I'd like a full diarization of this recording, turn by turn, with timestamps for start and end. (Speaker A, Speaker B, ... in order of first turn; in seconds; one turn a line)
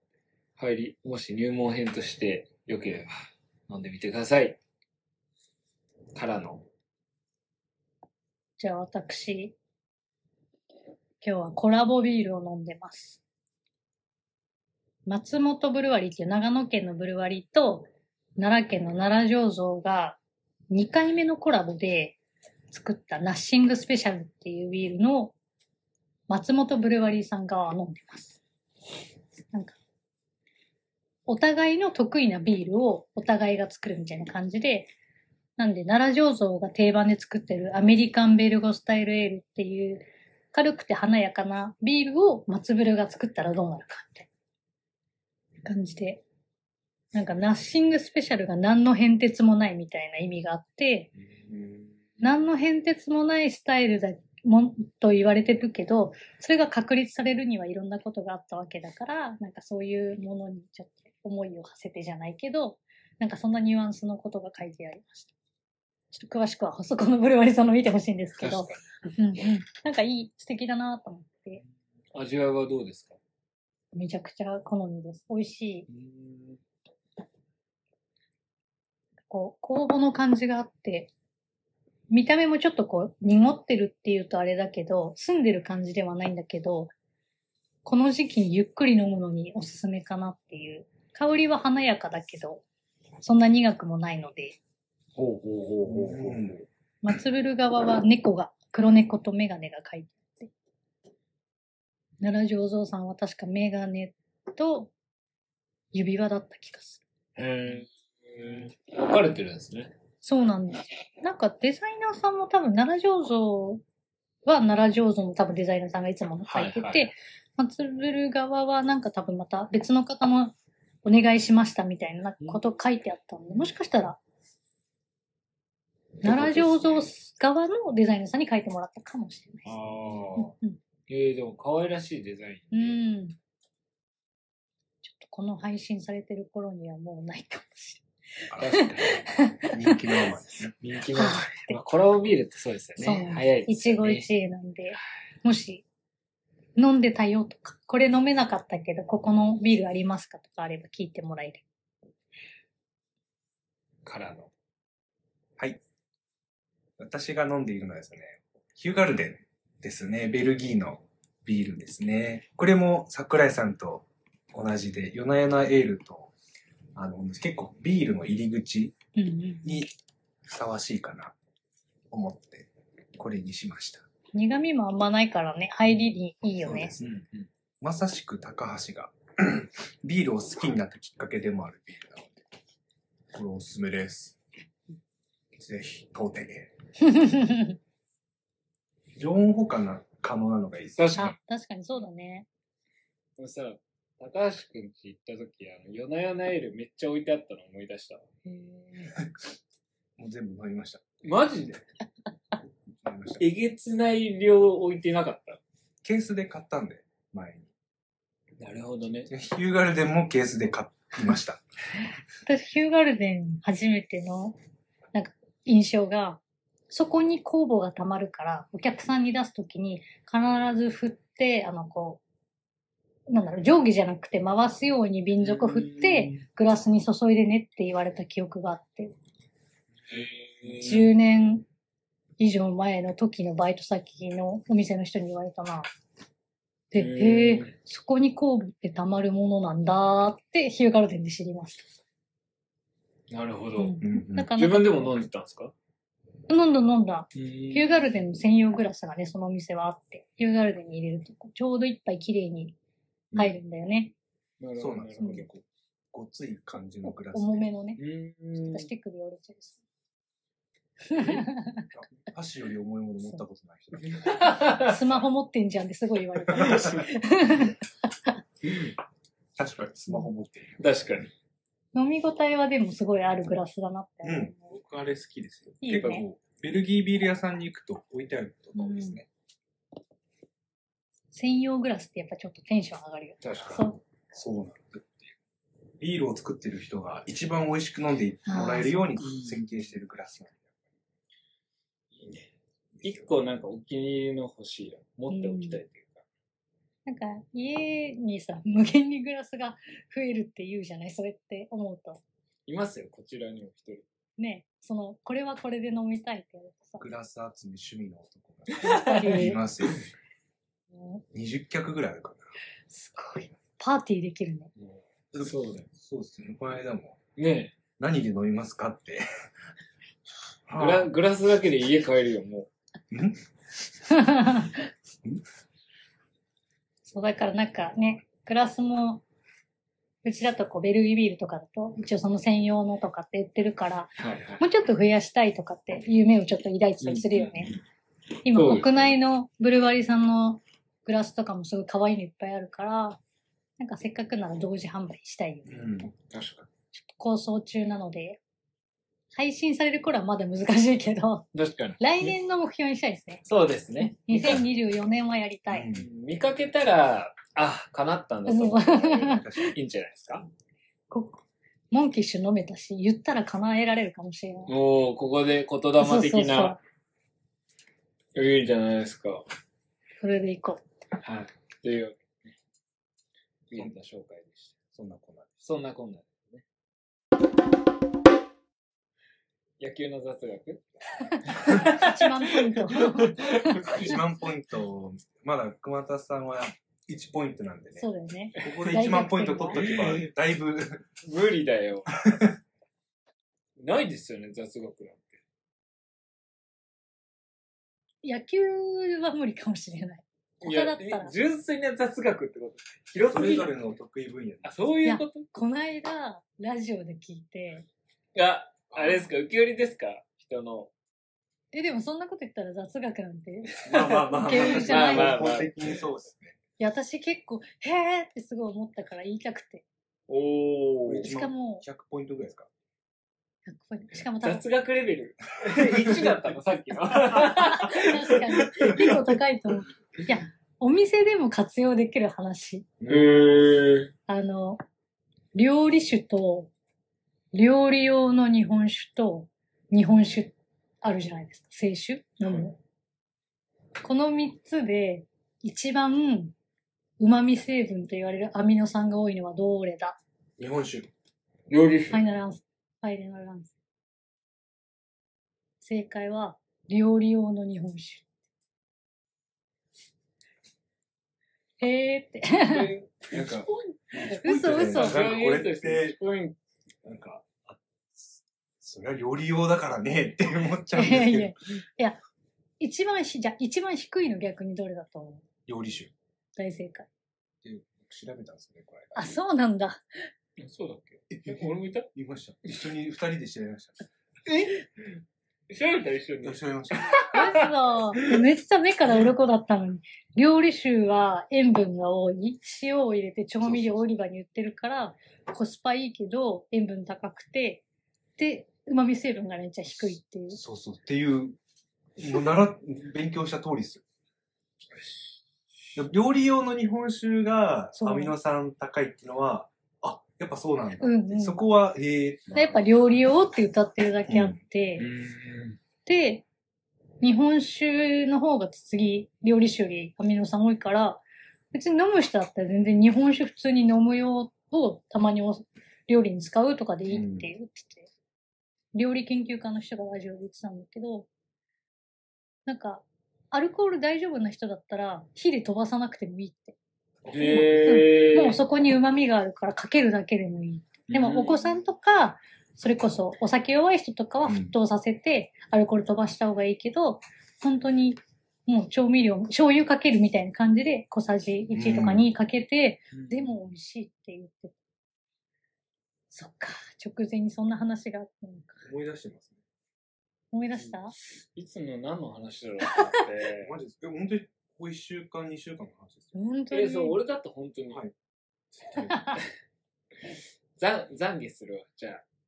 Speaker A: 0.6-4.6
Speaker A: 6.1-6.7
Speaker B: 8.6-9.6
Speaker B: 11.2-13.2
Speaker B: 15.1-20.2
Speaker B: 20.7-22.2
Speaker B: 22.7-25.4
Speaker B: 26.3-28.4
Speaker B: 31.3-34.9
Speaker B: 35.6-44.3
Speaker B: 45.6-46.2
Speaker B: 47.1-51.1
Speaker C: 51.5-51.9
Speaker B: 52.2-65.3
Speaker B: 66.1-71.6
Speaker A: 68.4-68.8
Speaker A: 72.1-73.2
Speaker B: 73.9-75.9
Speaker A: 75.9-76.6
Speaker B: 79.3-81.1
Speaker B: 82.1-86.9
Speaker B: 87.8-92.6
Speaker B: 93.2-94.6
Speaker A: 95.2-96.6
Speaker C: 95.8-96.6
Speaker B: 97.0-100.5
Speaker B: 102.2-104.9
Speaker B: 105.9-107.0
Speaker A: 107.4-109.9
Speaker B: 110.2-113.8
Speaker B: 114.5-124.2
Speaker A: 116.5-117.1
Speaker B: 126.2-129.8
Speaker A: 126.2-127.0
Speaker A: 129.7-130.5
Speaker B: 130.4-130.8
Speaker A: 131.1-132.9
Speaker B: 132.7-133.4
Speaker B: 135.0-138.0
Speaker A: 138.6-139.2
Speaker B: 138.6-140.0
Speaker C: 139.7-140.7
Speaker A: 140.8-144.3
Speaker B: 141.2-141.8
Speaker B: 143.0-145.8
Speaker B: 146.8-151.6
Speaker A: 154.1-154.5
Speaker C: 157.0-166.3
Speaker C: 166.9-168.9
Speaker B: 169.2-169.8
Speaker C: 169.6-169.9
Speaker C: 170.5-171.3
Speaker C: 172.1-174.1
Speaker B: 174.3-176.9
Speaker C: 176.6-177.2
Speaker A: 177.0-177.5
Speaker C: 177.8-182.4
Speaker C: 183.3-184.4
Speaker C: 185.6-186.7
Speaker B: 187.0-187.8
Speaker C: 189.2-191.3
Speaker A: 191.0-191.3
Speaker B: 191.2-192.5
Speaker A: 193.4-198.2
Speaker B: 198.4-199.2
Speaker C: 200.2-201.2
Speaker A: 201.2-201.8
Speaker C: 203.0-203.5
Speaker A: 203.4-205.6
Speaker C: 206.0-207.7
Speaker A: 208.6-209.3
Speaker C: 209.3-211.6
Speaker B: 212.5-214.6
Speaker B: 215.1-222.2
Speaker B: 223.3-229.1
Speaker A: 225.4-226.4
Speaker A: 230.1-231.1
Speaker B: 230.8-231.7
Speaker B: 232.4-235.9
Speaker B: 236.9-241.9
Speaker A: 237.0-237.7
Speaker A: 243.3-244.0
Speaker B: 243.8-245.2
Speaker C: 244.0-244.5
Speaker A: 244.6-245.7
Speaker B: 246.5-252.8
Speaker A: 247.3-247.9
Speaker C: 253.3-253.6
Speaker B: 253.3-254.1
Speaker A: 254.6-255.4
Speaker C: 254.8-257.7
Speaker B: 255.2-255.4
Speaker B: 257.1-258.0
Speaker A: 258.0-258.9
Speaker B: 258.6-259.8
Speaker B: 261.1-261.9
Speaker C: 261.9-264.8
Speaker A: 264.1-265.0
Speaker B: 264.8-268.4
Speaker C: 266.5-267.1
Speaker C: 269.6-270.8
Speaker A: 270.8-271.3
Speaker B: 271.9-274.7
Speaker C: 274.2-279.3
Speaker B: 275.8-276.2
Speaker B: 278.8-279.2
Speaker B: 281.3-284.0
Speaker A: 283.4-283.9
Speaker C: 284.3-285.3
Speaker C: 286.0-290.7
Speaker B: 288.5-289.1
Speaker A: 289.2-289.7
Speaker A: 292.1-292.5
Speaker C: 293.0-293.2
Speaker A: 293.0-296.2
Speaker B: 295.3-295.8
Speaker B: 297.1-302.2
Speaker A: 302.7-304.1
Speaker B: 304.4-307.0
Speaker C: 307.0-310.1
Speaker A: 308.7-309.5
Speaker B: 308.8-309.6
Speaker B: 311.0-311.2
Speaker C: 311.3-312.5
Speaker B: 312.9-314.7
Speaker C: 315.3-317.2
Speaker A: 315.4-315.9
Speaker A: 317.4-317.8
Speaker C: 318.0-319.2
Speaker C: 320.7-321.1
Speaker A: 320.8-322.7
Speaker C: 323.1-323.4
Speaker B: 324.1-324.9
Speaker B: 327.1-329.2
Speaker B: 330.2-337.7
Speaker A: 334.2-334.6
Speaker A: 337.0-337.7
Speaker B: 338.4-343.2
Speaker A: 338.5-338.9
Speaker B: 343.8-345.8
Speaker C: 345.7-346.1
Speaker A: 346.3-346.7
Speaker B: 346.9-348.4
Speaker B: 349.3-353.4
Speaker A: 351.5-352.0
Speaker A: 353.5-354.6
Speaker B: 354.0-355.9
Speaker C: 355.7-356.1
Speaker A: 355.9-360.5
Speaker B: 358.5-359.7
Speaker C: 359.3-359.8
Speaker B: 361.1-364.7
Speaker A: 364.7-366.8
Speaker B: 366.0-366.8
Speaker A: 368.3-369.4
Speaker B: 370.2-370.8
Speaker A: 371.2-372.5
Speaker A: 373.7-374.8
Speaker C: 374.9-375.6
Speaker A: 375.6-376.6
Speaker A: 379.8-380.8
Speaker B: 381.3-384.1
Speaker A: 381.4-384.2
Speaker C: 383.9-388.1
Speaker B: 388.0-389.8
Speaker C: 388.6-391.0
Speaker A: 389.7-390.3
Speaker A: 391.2-392.2
Speaker C: 392.2-392.5
Speaker A: 393.8-395.4
Speaker B: 398.2-401.3
Speaker A: 400.6-403.7
Speaker C: 403.2-404.7
Speaker A: 404.6-405.5
Speaker B: 405.1-407.9
Speaker A: 408.4-410.9
Speaker C: 408.9-409.3
Speaker B: 411.7-415.5
Speaker C: 413.8-416.6
Speaker A: 413.9-416.0
Speaker B: 416.8-419.9
Speaker A: 420.3-421.3
Speaker C: 421.1-422.7
Speaker B: 421.2-421.9
Speaker B: 423.7-424.6
Speaker A: 424.4-429.1
Speaker C: 425.7-426.5
Speaker B: 427.3-432.9
Speaker C: 427.5-428.0
Speaker C: 433.0-433.4
Speaker A: 433.1-434.1
Speaker B: 434.3-434.8
Speaker B: 435.6-436.7
Speaker B: 437.5-442.8
Speaker B: 444.0-446.5
Speaker B: 447.2-450.2
Speaker C: 450.6-451.1
Speaker A: 451.7-452.2
Speaker B: 452.1-453.7
Speaker B: 455.8-458.3
Speaker B: 461.8-462.9
Speaker A: 462.6-466.6
Speaker C: 463.3-463.7
Speaker B: 464.2-465.2
Speaker C: 464.2-466.2
Speaker C: 467.1-471.6
Speaker B: 470.9-472.2
Speaker B: 472.8-475.4
Speaker C: 475.7-476.1
Speaker B: 476.6-477.1
Speaker C: 477.6-479.3
Speaker B: 479.1-480.0
Speaker A: 480.6-482.1
Speaker C: 481.3-484.1
Speaker A: 484.5-485.1
Speaker A: 485.7-487.7
Speaker C: 486.4-487.3
Speaker B: 487.3-497.8
Speaker C: 493.6-494.1
Speaker B: 498.4-500.6
Speaker C: 500.5-501.6
Speaker C: 502.2-504.0
Speaker C: 506.0-512.8
Speaker B: 508.0-508.3
Speaker B: 511.0-511.6
Speaker B: 512.5-515.1
Speaker C: 514.3-514.6
Speaker A: 515.0-515.8
Speaker B: 516.0-516.5
Speaker B: 517.2-528.1
Speaker C: 527.1-527.5
Speaker B: 528.9-531.3
Speaker B: 532.7-536.8
Speaker A: 537.3-538.6
Speaker B: 537.4-554.7
Speaker A: 541.1-541.6
Speaker C: 544.5-544.7
Speaker C: 551.7-552.3
Speaker A: 553.1-553.5
Speaker B: 556.3-558.9
Speaker C: 558.8-559.6
Speaker B: 560.5-561.1
Speaker A: 561.5-563.8
Speaker C: 563.6-566.4
Speaker B: 566.3-567.2
Speaker A: 566.7-568.0
Speaker C: 568.9-569.2
Speaker B: 569.1-569.4
Speaker A: 570.8-572.2